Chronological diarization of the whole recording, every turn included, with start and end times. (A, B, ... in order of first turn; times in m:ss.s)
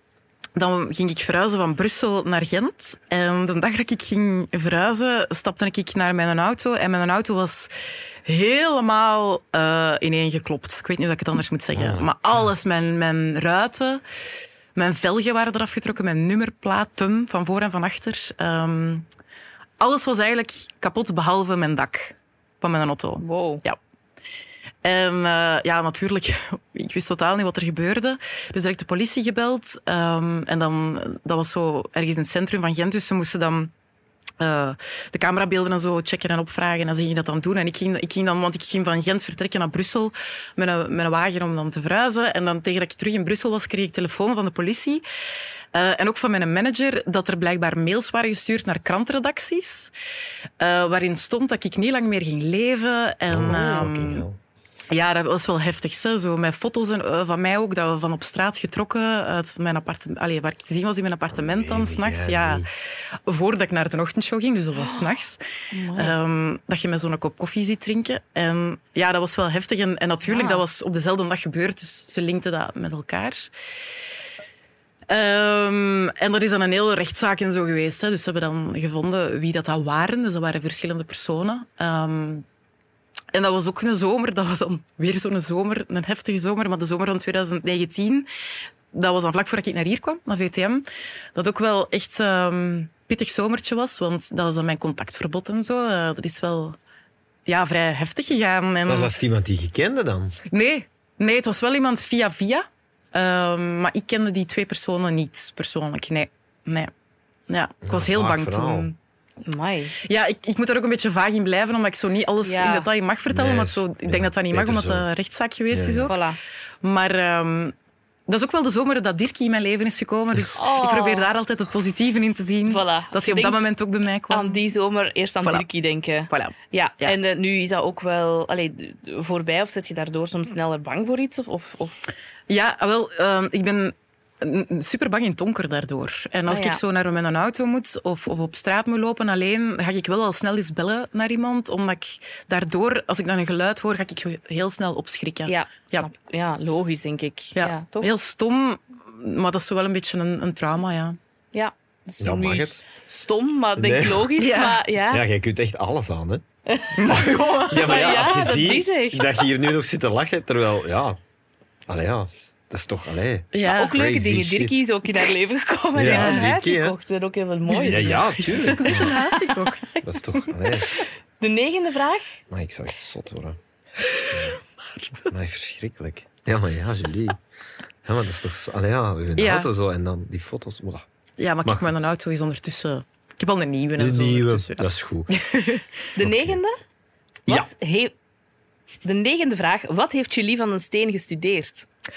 0:00.6-0:07.7 A
0:08.2-0:14.0 A
0:11.7-0:12.5 B
0:14.7-0:19.1 A
0:19.8-0:23.8 A
0:23.2-0:23.6 C
0:24.8-0:33.7 A
0:34.4-0:45.0 A
0:45.7-0:49.9 A
0:50.6-0:54.2 A
0:53.3-0:54.4 B
0:54.9-1:02.7 A
1:01.3-1:02.7 B
1:03.2-1:05.4 A
1:04.8-1:05.0 C
1:05.7-1:06.1 C
1:05.9-1:13.5 A
1:10.2-1:10.6 C
1:15.1-1:22.4 A
1:23.3-1:28.3 A
1:28.9-1:36.8 A
1:37.4-1:39.1 A
1:38.8-1:40.4 B
1:40.4-1:46.9 A
1:47.5-1:49.0 A
1:47.8-1:48.9 B
1:49.4-1:50.0 C
1:50.0-1:56.2 A
1:52.4-1:52.9 C
1:53.3-1:55.1 B
1:55.7-1:56.1 B
1:56.1-1:56.4 C
1:56.8-1:57.7 A
1:58.3-2:04.6 A
2:00.6-2:01.3 C
2:02.6-2:03.6 C
2:04.3-2:12.1 C
2:06.3-2:07.2 A
2:12.5-2:26.1 A
2:16.5-2:16.8 C
2:25.4-2:28.1 C
2:27.5-2:31.2 A
2:31.5-2:35.2 C
2:32.2-2:32.8 B
2:33.8-2:34.3 B
2:34.4-2:34.8 A
2:35.1-2:36.4 B
2:36.7-2:39.5 C
2:36.9-2:38.0 A
2:37.0-2:41.2 B
2:41.9-2:44.8 B
2:43.5-2:43.9 A
2:43.7-2:49.9 C
2:45.9-2:47.0 B
2:46.0-2:46.5 A
2:47.7-2:49.2 B
2:48.4-2:50.0 A
2:50.0-2:51.0 B
2:51.0-2:52.4 C
2:52.5-2:53.6 B
2:54.1-2:54.5 A
2:54.3-2:54.6 B
2:55.3-2:57.4 B
2:58.0-3:01.0 B
2:59.4-2:59.7 A
3:01.4-3:05.8 A
3:01.6-3:02.1 B
3:04.0-3:05.3 B
3:06.2-3:06.7 C
3:06.2-3:06.6 B
3:07.5-3:08.1 C
3:09.0-3:11.9 C